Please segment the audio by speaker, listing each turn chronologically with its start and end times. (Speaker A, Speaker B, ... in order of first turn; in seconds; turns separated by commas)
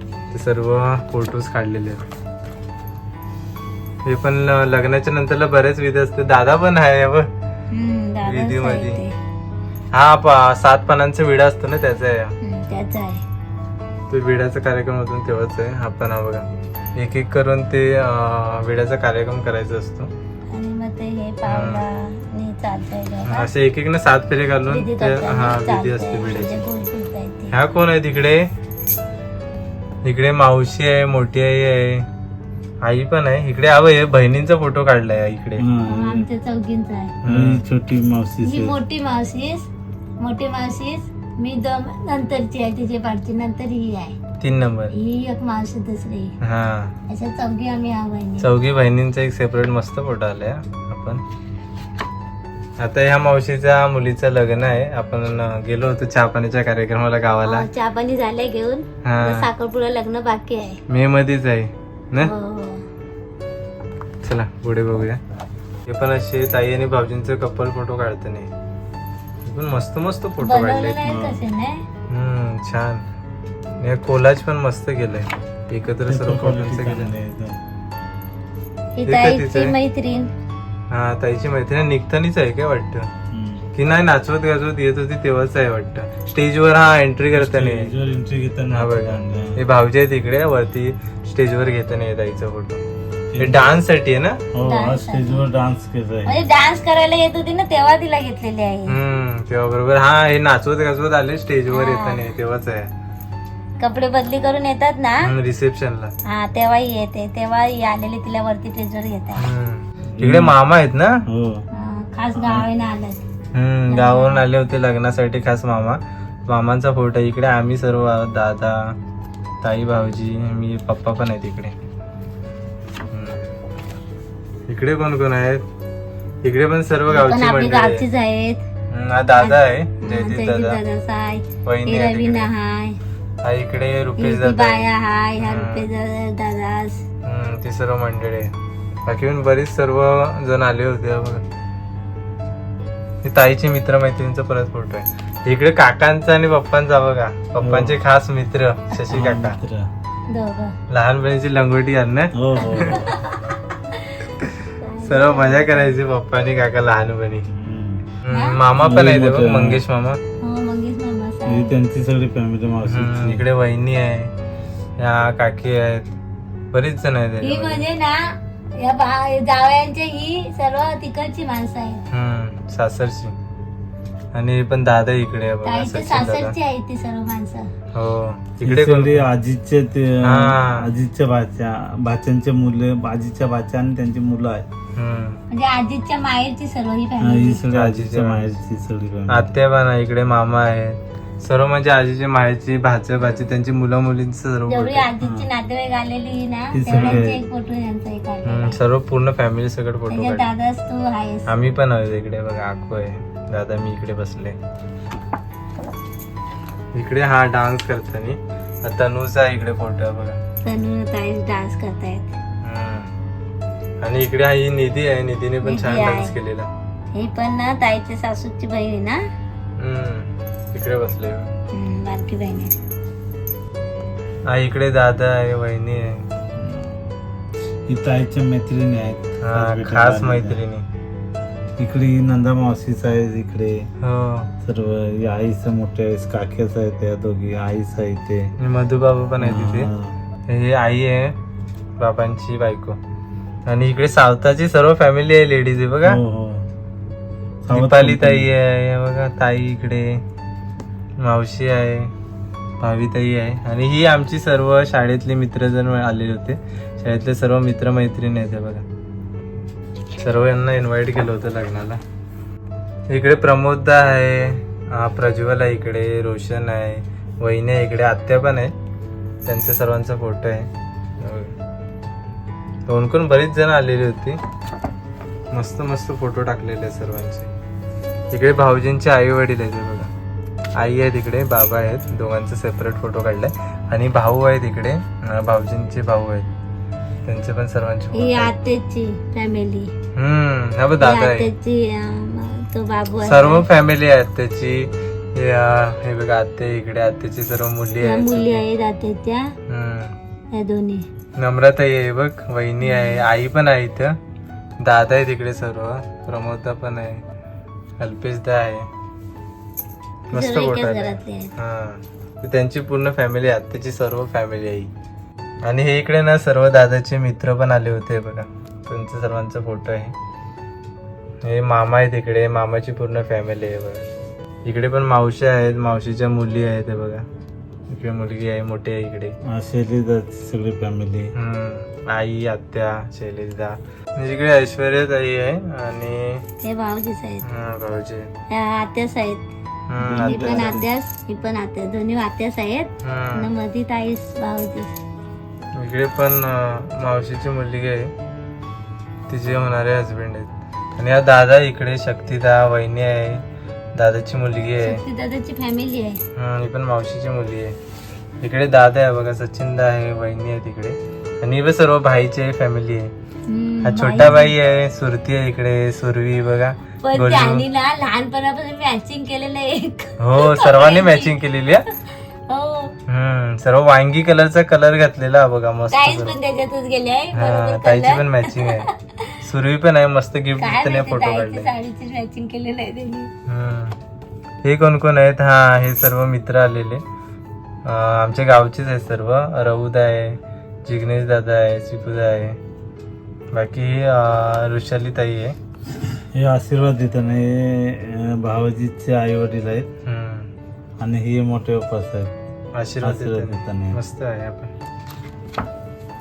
Speaker A: 0.3-2.0, Speaker A: 4.0-7.3, Speaker B: 7.7-9.1, Speaker A: 8.2-9.0, Speaker A: 9.9-12.3, Speaker B: 12.4-13.2, Speaker A: 14.1-20.1, Speaker B: 20.5-23.5, Speaker A: 21.4-21.8, Speaker A: 23.2-26.6, Speaker B: 24.7-27.5, Speaker A: 27.5-28.4, Speaker A: 30.0-32.0, Speaker A: 32.8-35.6, Speaker C: 35.6-36.3, Speaker B: 35.9-37.2, Speaker A: 37.2-37.6, Speaker C: 37.2-38.8, Speaker B: 38.4-39.7, Speaker B: 40.2-44.2, Speaker A: 44.4-44.9, Speaker B: 44.9-46.3, Speaker A: 46.4-46.9, Speaker B: 47.1-48.5, Speaker A: 48.4-51.2, Speaker A: 52.8-57.7, Speaker B: 57.4-60.8, Speaker A: 59.0-59.5, Speaker A: 60.9-62.3, Speaker B: 62.2-62.8, Speaker A: 64.2-65.2, Speaker A: 65.9-68.5, Speaker A: 69.5-71.0, Speaker B: 70.4-71.8, Speaker C: 71.0-71.4, Speaker A: 72.1-73.0, Speaker A: 73.8-77.1, Speaker C: 76.1-77.6, Speaker B: 79.0-80.3, Speaker A: 79.0-79.8, Speaker A: 80.9-83.1, Speaker C: 83.3-83.7, Speaker A: 83.7-87.9, Speaker C: 87.3-89.6, Speaker A: 88.7-92.8, Speaker C: 93.3-93.8, Speaker A: 93.4-94.4, Speaker C: 94.5-96.4, Speaker B: 94.6-95.4, Speaker B: 96.2-98.9, Speaker A: 98.9-102.9, Speaker B: 101.7-102.3, Speaker B: 103.8-105.3, Speaker A: 105.2-106.1, Speaker B: 106.2-109.4, Speaker A: 109.4-111.2, Speaker C: 110.1-110.5, Speaker C: 111.2-111.6, Speaker B: 111.7-113.2, Speaker C: 112.3-112.7, Speaker A: 113.5-118.9, Speaker B: 113.9-114.4, Speaker A: 119.6-121.7, Speaker A: 123.1-123.4, Speaker A: 124.7-125.6, Speaker A: 126.4-128.0, Speaker B: 127.1-128.6, Speaker A: 128.9-130.8, Speaker B: 129.4-133.0, Speaker A: 131.6-132.5, Speaker A: 133.4-134.8, Speaker B: 134.2-137.0, Speaker A: 135.4-135.9, Speaker A: 137.2-138.5, Speaker A: 139.1-141.4, Speaker A: 143.2-149.6, Speaker C: 147.6-148.0, Speaker C: 149.1-149.9, Speaker B: 150.3-150.8, Speaker A: 150.9-153.0, Speaker C: 152.3-153.2, Speaker B: 152.6-154.2, Speaker A: 154.4-157.5, Speaker B: 154.8-156.0, Speaker C: 157.5-158.1, Speaker A: 158.2-160.2, Speaker B: 158.3-158.6, Speaker C: 158.8-159.8, Speaker B: 160.4-161.7, Speaker C: 161.4-163.4, Speaker A: 162.8-164.3, Speaker A: 165.0-166.1, Speaker A: 166.7-167.8, Speaker B: 167.4-172.0, Speaker A: 172.1-173.3, Speaker A: 174.3-176.5, Speaker B: 175.6-177.7, Speaker A: 177.9-179.2, Speaker C: 178.6-184.7, Speaker A: 180.2-180.9, Speaker A: 184.9-185.4, Speaker B: 185.5-187.6, Speaker C: 187.2-189.5, Speaker A: 187.7-188.5, Speaker A: 189.3-195.1, Speaker B: 194.7-198.8, Speaker C: 195.2-195.5, Speaker C: 196.7-197.4, Speaker A: 196.9-197.2, Speaker A: 198.4-200.5, Speaker B: 200.1-201.6, Speaker A: 201.5-204.6, Speaker A: 206.9-210.4, Speaker B: 210.6-212.3, Speaker A: 212.6-213.1, Speaker A: 214.0-216.7, Speaker B: 215.6-216.3, Speaker B: 217.1-219.2, Speaker A: 219.8-221.5, Speaker B: 221.7-222.8, Speaker A: 224.5-226.2, Speaker C: 226.5-227.0, Speaker C: 227.9-230.6, Speaker A: 229.4-230.8, Speaker C: 231.8-233.9, Speaker A: 234.0-234.5, Speaker C: 234.6-238.5, Speaker A: 238.6-239.9, Speaker C: 239.4-240.1, Speaker A: 240.5-241.3, Speaker A: 242.0-243.0, Speaker A: 243.7-246.2, Speaker C: 246.0-246.6, Speaker C: 247.6-248.5, Speaker A: 247.7-250.2, Speaker A: 251.2-252.1, Speaker A: 252.8-258.8, Speaker A: 260.2-262.0, Speaker A: 263.1-268.7, Speaker A: 269.4-270.7, Speaker A: 271.2-271.5, Speaker A: 272.9-274.4, Speaker A: 275.5-277.5, Speaker A: 278.3-280.1, Speaker A: 280.8-286.5, Speaker A: 287.2-288.5, Speaker B: 288.1-289.9, Speaker A: 290.1-291.5, Speaker B: 291.0-293.6, Speaker A: 293.2-298.6, Speaker B: 298.0-299.5, Speaker A: 299.7-300.1, Speaker B: 300.5-301.0, Speaker A: 301.4-304.2, Speaker B: 302.8-303.2, Speaker A: 304.8-307.2, Speaker A: 308.0-308.9, Speaker A: 310.3-314.9, Speaker B: 310.3-311.5, Speaker A: 315.6-320.1, Speaker A: 321.4-324.0, Speaker A: 324.6-327.2, Speaker A: 327.9-329.3, Speaker C: 329.4-331.3, Speaker A: 331.3-336.4, Speaker B: 336.6-337.4, Speaker A: 337.4-338.3, Speaker B: 338.5-339.4, Speaker A: 339.9-340.8, Speaker C: 340.0-340.9, Speaker B: 340.3-344.9, Speaker A: 343.0-343.5, Speaker A: 345.8-348.1, Speaker A: 349.3-353.4, Speaker A: 353.9-355.0, Speaker B: 354.8-356.2, Speaker A: 356.4-357.7, Speaker A: 358.4-363.1, Speaker B: 363.5-364.5, Speaker A: 363.8-367.6, Speaker B: 367.0-371.3, Speaker A: 370.2-371.9, Speaker B: 372.5-372.9, Speaker A: 373.1-376.4, Speaker B: 375.9-379.4, Speaker A: 377.3-378.9, Speaker A: 379.4-381.7, Speaker B: 380.6-383.3, Speaker A: 383.5-383.9, Speaker A: 384.6-387.0, Speaker A: 387.8-392.6, Speaker A: 393.5-395.6, Speaker C: 396.1-399.9, Speaker A: 400.0-400.5, Speaker C: 401.0-402.3, Speaker A: 402.7-404.7, Speaker C: 403.0-404.0